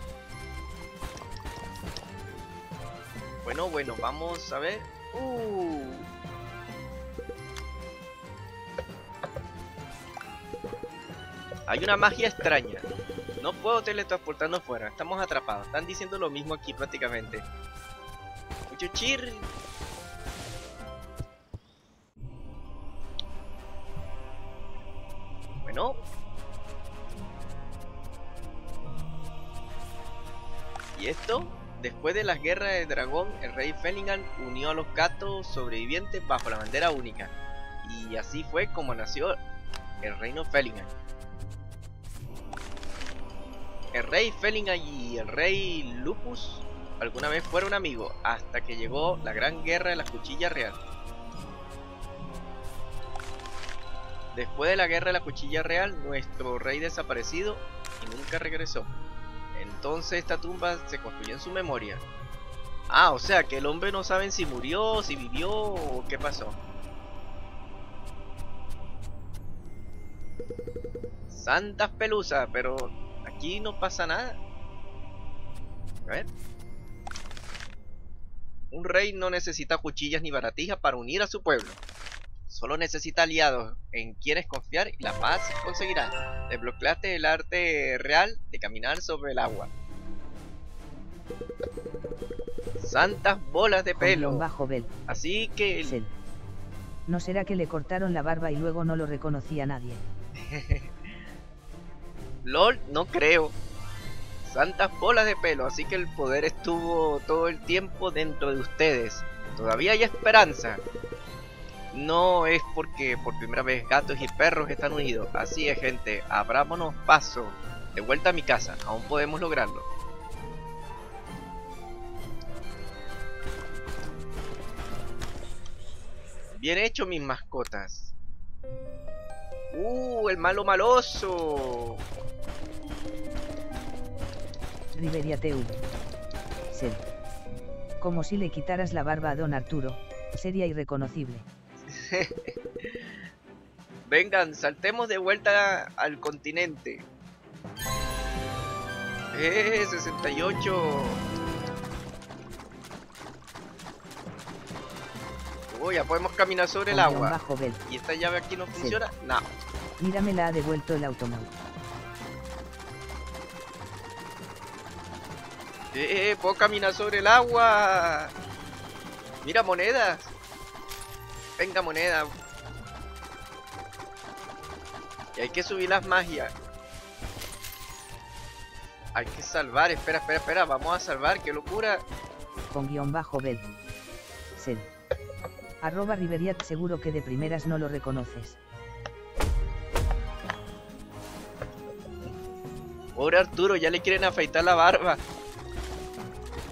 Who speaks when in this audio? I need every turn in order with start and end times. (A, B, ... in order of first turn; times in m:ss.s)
0:03.4-0:06.1 A
0:11.7-0:12.9 A
0:13.4-0:17.5 A
0:18.7-0:19.5 A
0:25.6-0:26.0 A
0:31.0-0:39.4 A
0:40.0-0:40.9 A
0:43.9-0:50.8 A
0:54.3-0:58.9 A
0:59.5-1:02.0 A
1:02.9-1:06.6 A
1:11.3-1:14.4 A
1:18.7-1:21.8 A
1:22.5-1:29.7 A
1:32.8-1:34.5 A
1:33.9-1:34.9 B
1:35.1-1:36.0 A
1:35.8-1:36.1 B
1:37.1-1:40.1 B
1:40.4-1:41.0 A
1:42.4-1:43.6 A
1:44.4-1:50.8 A
1:51.9-1:59.8 A
2:06.6-2:08.1 A
2:09.7-2:12.0 A
2:14.9-2:15.8 B
2:16.7-2:17.0 B
2:18.0-2:21.4 B
2:21.9-2:23.0 A
2:24.1-2:27.1 A
2:29.3-2:31.2 A
2:35.7-2:39.5 A
2:36.9-2:37.8 B
2:38.8-2:39.0 B
2:40.0-2:41.5 B
2:45.9-2:48.3 A
2:49.4-2:50.3 A
2:51.6-2:52.3 A
2:55.4-2:56.5 A
2:59.1-3:02.0 A
3:02.7-3:03.6 B
3:04.6-3:04.9 B
3:05.8-3:08.6 B
3:13.2-3:15.2 A